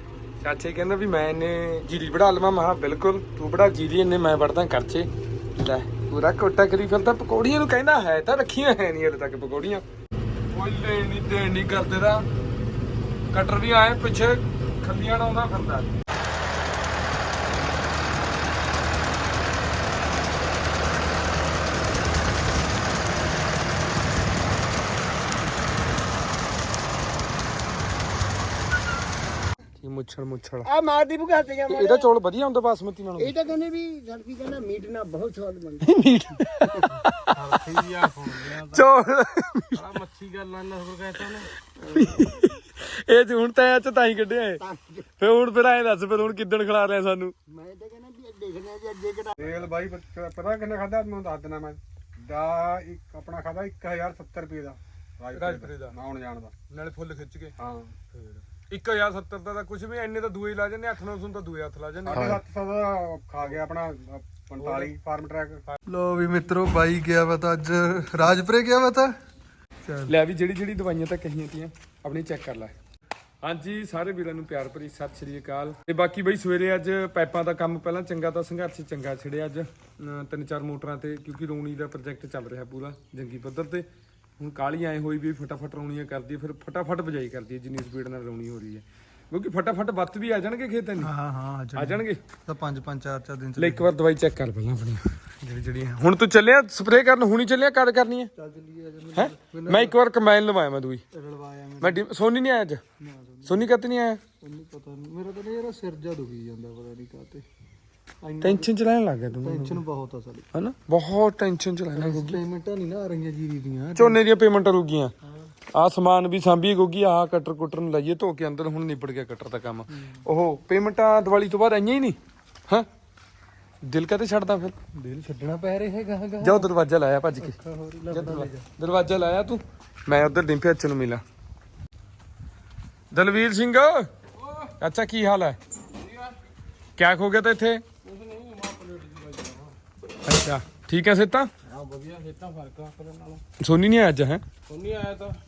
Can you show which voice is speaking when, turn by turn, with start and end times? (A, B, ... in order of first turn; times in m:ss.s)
0:00.4-0:09.8 A
0:10.5-0:12.2 A
0:13.3-0:15.9 A
0:29.8-0:30.7 A
0:30.7-0:32.1 B
0:31.7-0:33.4 A
0:33.2-0:35.9 B
0:35.8-0:37.2 A
0:37.3-0:38.8 C
0:38.7-0:39.8 A
0:39.7-0:41.5 C
0:41.8-0:44.6 A
0:44.6-0:45.1 B
0:45.2-0:47.3 A
0:47.5-0:49.6 B
0:49.4-0:56.5 D
0:55.3-0:55.9 A
0:56.7-0:57.5 A
0:57.6-0:57.9 D
0:58.1-1:02.4 A
1:02.0-1:05.6 D
1:02.1-1:02.4 C
1:04.6-1:04.9 A
1:05.9-1:09.2 E
1:09.8-1:10.1 E
1:10.0-1:12.7 A
1:13.4-1:31.1 A
1:31.0-1:33.9 E
1:31.7-1:32.2 A
1:33.6-1:38.3 A
1:38.4-1:40.0 E
1:39.1-1:41.0 A
1:41.1-1:42.0 E
1:41.8-1:42.8 A
1:43.0-1:43.7 E
1:43.4-1:44.2 A
1:44.4-1:47.4 E
1:48.2-1:48.7 E
1:48.4-1:49.8 A
1:49.3-1:50.4 E
1:50.5-1:52.4 A
1:51.9-1:54.2 E
1:53.9-1:55.1 A
1:55.2-1:55.5 E
1:55.7-2:02.2 A
2:03.8-2:04.8 A
2:04.9-2:06.7 E
2:06.4-2:11.2 A
2:07.5-2:08.6 E
2:13.1-2:14.1 A
2:14.4-2:14.7 C
2:14.8-2:15.6 A
2:16.0-2:16.3 C
2:17.0-2:17.8 A
2:18.0-2:19.7 C
2:20.2-2:21.5 A
2:21.6-2:23.4 C
2:23.6-2:24.4 A
2:24.7-2:25.4 C